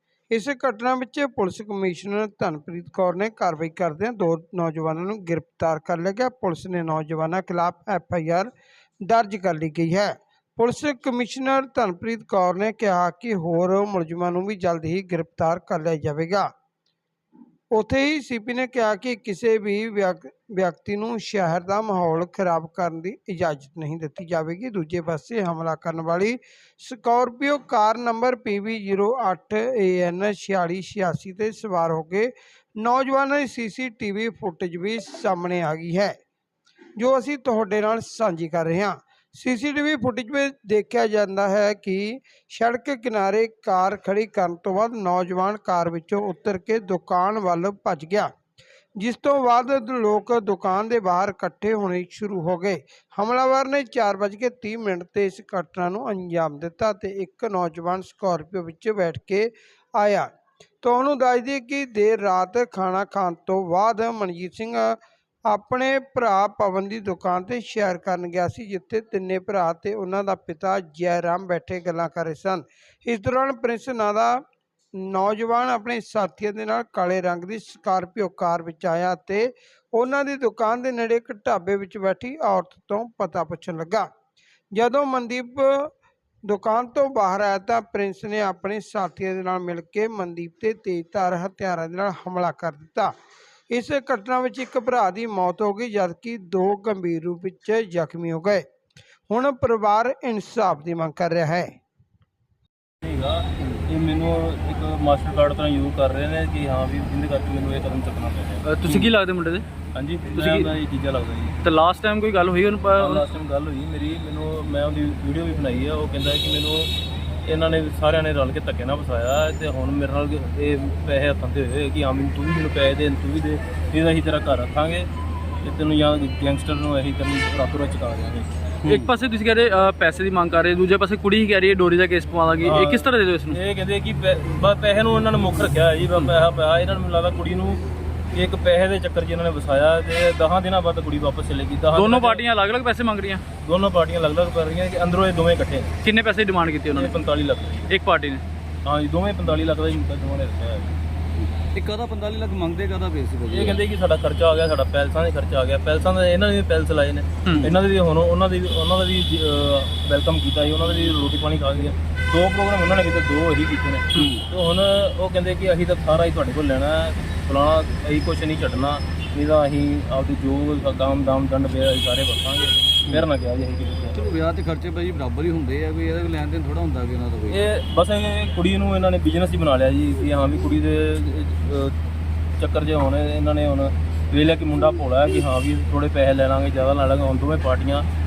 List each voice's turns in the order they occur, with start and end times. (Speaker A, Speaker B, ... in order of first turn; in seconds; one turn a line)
Speaker A: 0.3-8.5
Speaker A: 9.0-16.5
Speaker A: 17.7-36.1
Speaker A: 37.0-48.3
Speaker A: 49.0-60.3
Speaker A: 60.8-74.4
Speaker A: 75.0-84.1
Speaker A: 84.7-85.9
Speaker A: 86.4-93.1
Speaker A: 93.7-98.6
Speaker A: 99.3-101.7
Speaker B: 103.0-109.1
Speaker C: 108.6-109.6
Speaker B: 109.9-111.5
Speaker C: 110.3-110.7
Speaker C: 111.6-113.2
Speaker B: 113.0-116.9
Speaker B: 117.4-125.1
Speaker B: 125.6-128.5
Speaker C: 128.8-133.6
Speaker B: 132.6-137.8
Speaker B: 138.3-142.4
Speaker C: 141.9-143.4
Speaker B: 143.6-145.9
Speaker C: 146.0-147.1
Speaker B: 146.9-147.9
Speaker C: 147.9-148.4
Speaker B: 148.8-150.9
Speaker D: 151.7-153.8
Speaker B: 153.5-174.2
Speaker D: 174.2-177.6
Speaker B: 177.5-181.9
Speaker B: 182.6-188.0